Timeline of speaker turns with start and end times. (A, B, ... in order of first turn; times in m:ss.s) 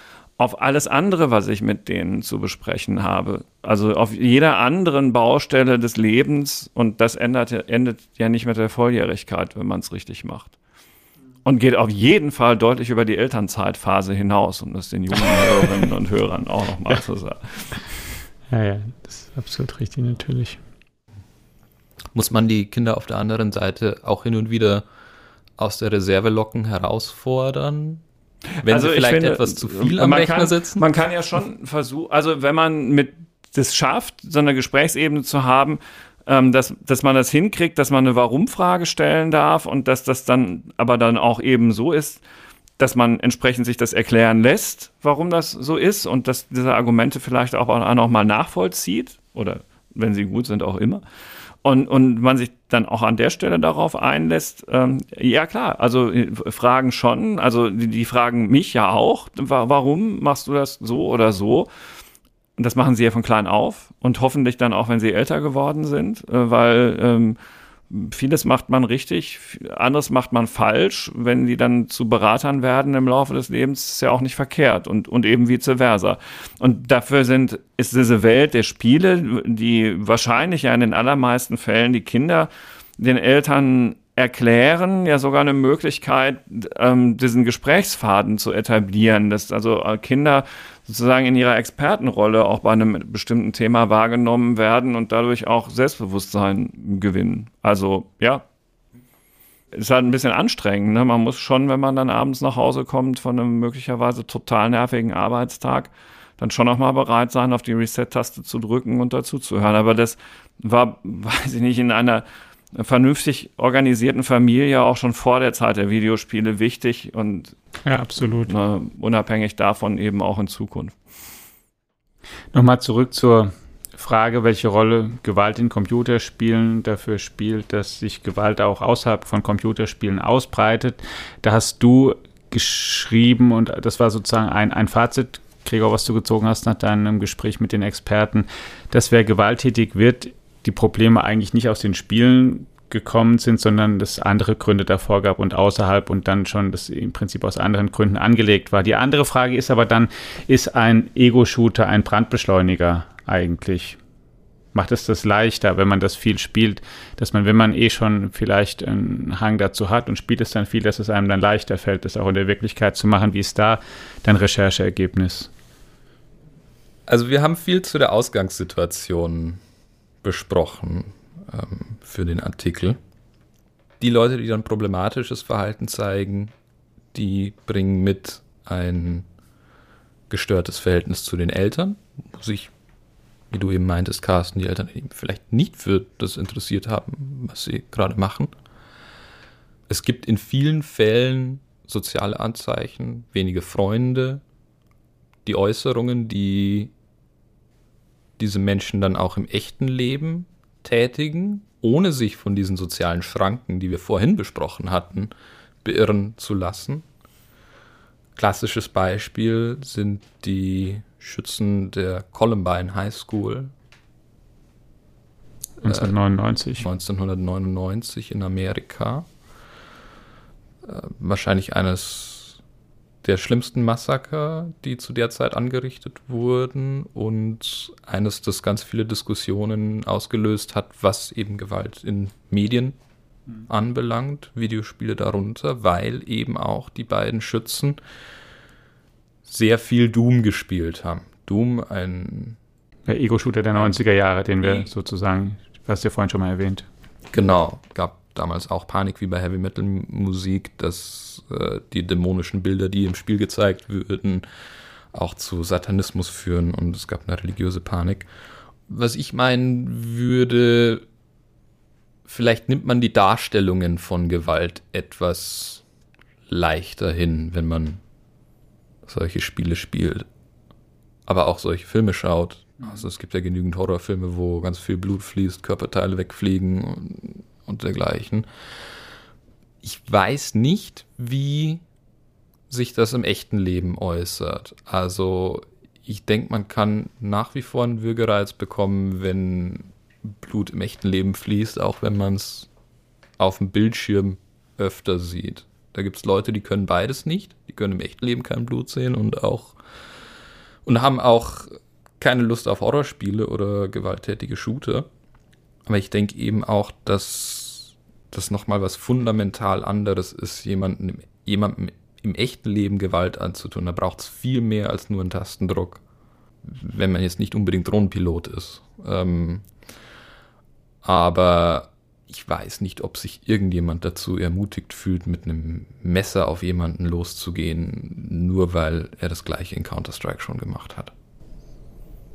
0:00.4-0:10.6 A
0:11.4-0:18.0 A
0:18.5-0:20.6 B
0:22.1-0:24.8 C
0:25.6-0:28.0 C
0:28.6-0:42.2 A
0:28.6-0:30.8 C
0:42.8-0:51.0 A
0:51.6-1:01.7 A
1:02.6-1:07.4 A
1:07.9-1:38.4 A
1:39.7-1:57.6 A
1:57.8-1:58.5 B
1:58.4-2:01.0 A
2:02.5-2:34.0 B
2:34.7-2:45.5 B
2:47.1-2:49.6 C
2:50.2-2:53.0 C
2:54.0-2:56.5 C
2:57.1-2:59.2 C
3:00.3-3:02.7 C
3:03.5-3:08.5 C
3:09.9-3:14.4 C
3:15.4-3:16.9 C
3:18.4-3:25.3 C
3:25.8-3:27.0 C
3:28.4-3:33.7 C
3:35.8-3:36.8 B
3:35.8-3:36.2 C
3:36.8-3:39.3 C
3:40.8-3:42.6 C
3:43.2-3:53.0 C
3:53.7-3:58.0 C
3:59.4-4:02.6 C
4:03.0-4:06.9 B
4:07.3-4:14.4 C
4:15.1-4:18.3 C
4:18.9-4:21.0 C
4:22.3-4:25.8 C
4:26.5-4:28.0 C
4:29.0-4:30.2 C
4:31.2-4:38.5 C
4:39.8-4:41.8 C
4:42.7-4:52.7 C
4:53.4-4:59.8 C
5:00.8-5:05.1 C
5:05.9-5:16.0 C
5:16.6-5:19.6 C
5:21.0-5:31.1 C